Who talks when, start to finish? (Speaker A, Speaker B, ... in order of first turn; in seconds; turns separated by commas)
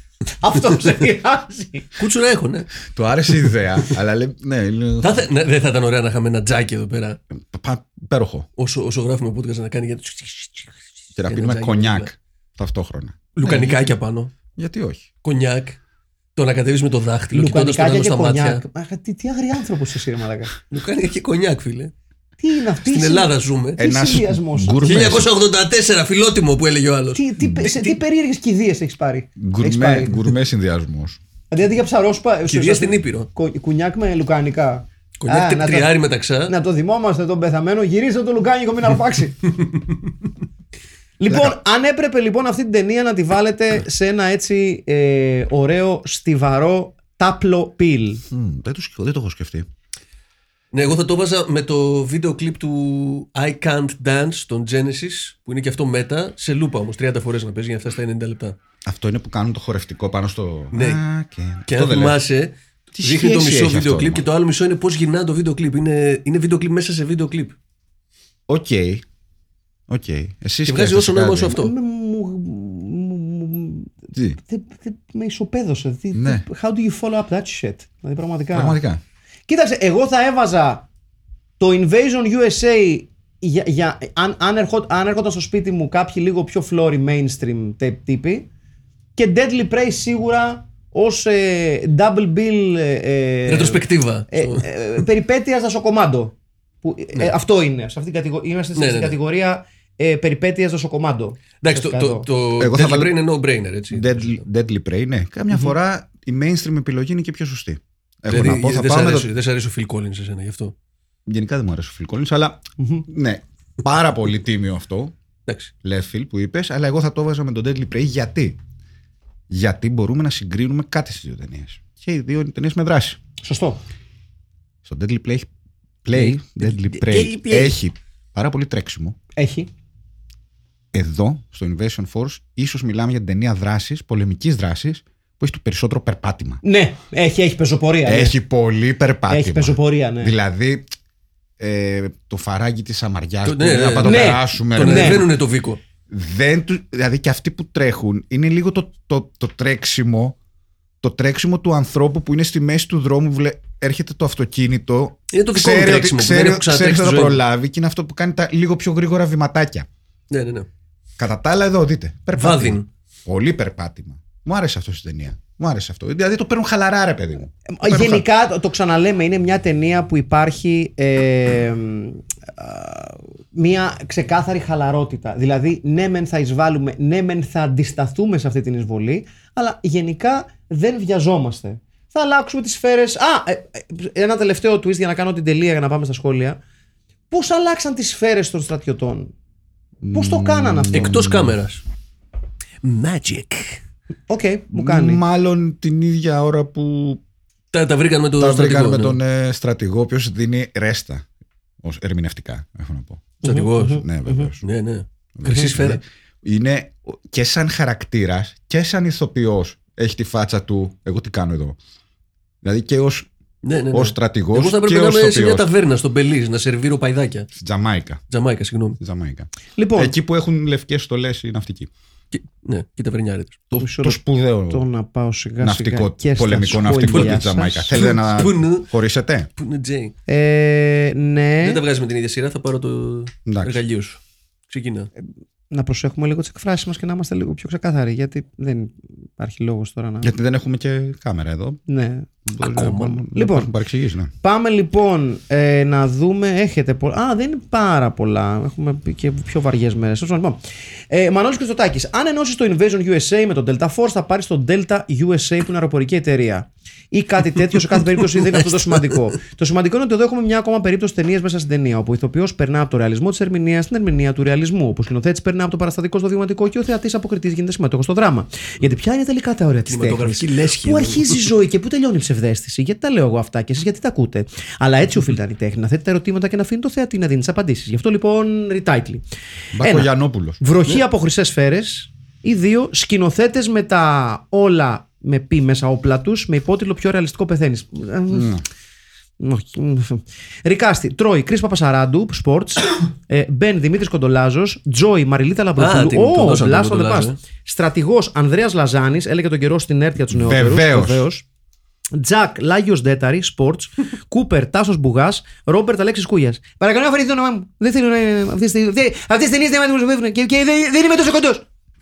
Speaker A: 0.4-1.9, Speaker B: 2.0-2.7, Speaker C: 2.8-5.2, Speaker B: 5.0-7.2, Speaker C: 7.3-8.5, Speaker B: 8.6-10.7, Speaker C: 11.2-13.7, Speaker B: 11.3-12.1, Speaker B: 13.3-14.3, Speaker C: 14.5-15.1, Speaker B: 15.2-15.8, Speaker B: 16.4-18.6, Speaker A: 17.3-20.5, Speaker B: 20.7-21.9, Speaker A: 22.4-25.1, Speaker B: 22.8-23.8, Speaker C: 23.8-25.3, Speaker B: 24.8-28.0, Speaker A: 27.1-30.2, Speaker C: 29.4-31.2, Speaker A: 31.5-35.9, Speaker B: 32.5-33.3, Speaker B: 35.2-36.5, Speaker A: 36.5-39.5, Speaker A: 41.2-48.2, Speaker C: 41.3-41.5, Speaker C: 48.3-49.7, Speaker B: 50.7-58.5, Speaker C: 58.9-62.2, Speaker B: 60.7-61.0, Speaker B: 61.7-67.5, Speaker C: 62.9-64.2, Speaker C: 68.5-69.0, Speaker C: 69.9-71.5, Speaker B: 70.6-71.7, Speaker A: 71.5-73.9, Speaker A: 74.5-78.8, Speaker C: 76.1-76.4, Speaker C: 78.5-79.0, Speaker A: 79.5-80.8, Speaker A: 81.6-88.5, Speaker A: 89.2-102.3, Speaker B: 93.5-94.7, Speaker B: 98.7-99.2, Speaker B: 101.6-104.4, Speaker C: 102.6-103.1, Speaker C: 103.9-109.3, Speaker B: 108.3-110.7, Speaker C: 111.3-115.1, Speaker A: 112.8-113.0, Speaker B: 115.5-115.7, Speaker C: 115.8-118.6, Speaker C: 119.5-123.2, Speaker A: 123.4-123.8, Speaker C: 124.8-125.5, Speaker C: 126.0-129.2, Speaker A: 126.1-127.7, Speaker A: 129.3-129.7, Speaker C: 130.9-136.6, Speaker A: 136.6-138.3, Speaker C: 138.0-140.9, Speaker A: 139.3-140.3, Speaker C: 141.6-145.3, Speaker B: 143.4-145.8, Speaker A: 144.0-145.2, Speaker C: 146.1-150.3, Speaker C: 151.0-159.9, Speaker B: 155.3-157.4, Speaker B: 160.3-160.7, Speaker C: 161.2-168.2, Speaker B: 162.4-162.8, Speaker A: 167.7-186.6, Speaker A: 187.3-189.3, Speaker C: 190.0-191.5, Speaker A: 190.1-191.2, Speaker B: 190.9-191.8, Speaker B: 192.8-193.8, Speaker A: 194.3-195.2, Speaker C: 194.7-197.2, Speaker B: 197.7-199.2, Speaker C: 198.4-201.2, Speaker C: 201.8-204.6, Speaker B: 203.4-204.1, Speaker A: 203.4-204.5, Speaker B: 204.6-206.0, Speaker C: 205.3-211.8, Speaker C: 212.6-213.3, Speaker B: 213.6-217.5, Speaker C: 213.9-215.7, Speaker C: 217.5-218.2, Speaker B: 218.3-219.0, Speaker C: 219.0-221.9, Speaker A: 219.8-220.1, Speaker B: 222.3-223.8, Speaker A: 223.8-228.0, Speaker C: 224.0-224.8, Speaker C: 225.6-229.5, Speaker B: 227.1-227.4, Speaker B: 227.9-228.9, Speaker B: 229.6-230.1, Speaker A: 230.3-231.8, Speaker B: 231.6-235.1, Speaker C: 233.4-233.8, Speaker A: 235.7-240.3, Speaker C: 240.2-241.8, Speaker A: 241.9-243.7, Speaker C: 242.4-244.3, Speaker B: 242.7-243.1, Speaker A: 244.4-250.6, Speaker A: 251.1-279.2, Speaker B: 258.2-259.2, Speaker B: 269.9-271.4, Speaker C: 279.7-280.6, Speaker A: 279.8-288.6, Speaker C: 288.3-288.6, Speaker A: 289.4-301.4, Speaker B: 295.8-297.4, Speaker C: 300.3-301.2, Speaker A: 302.1-311.6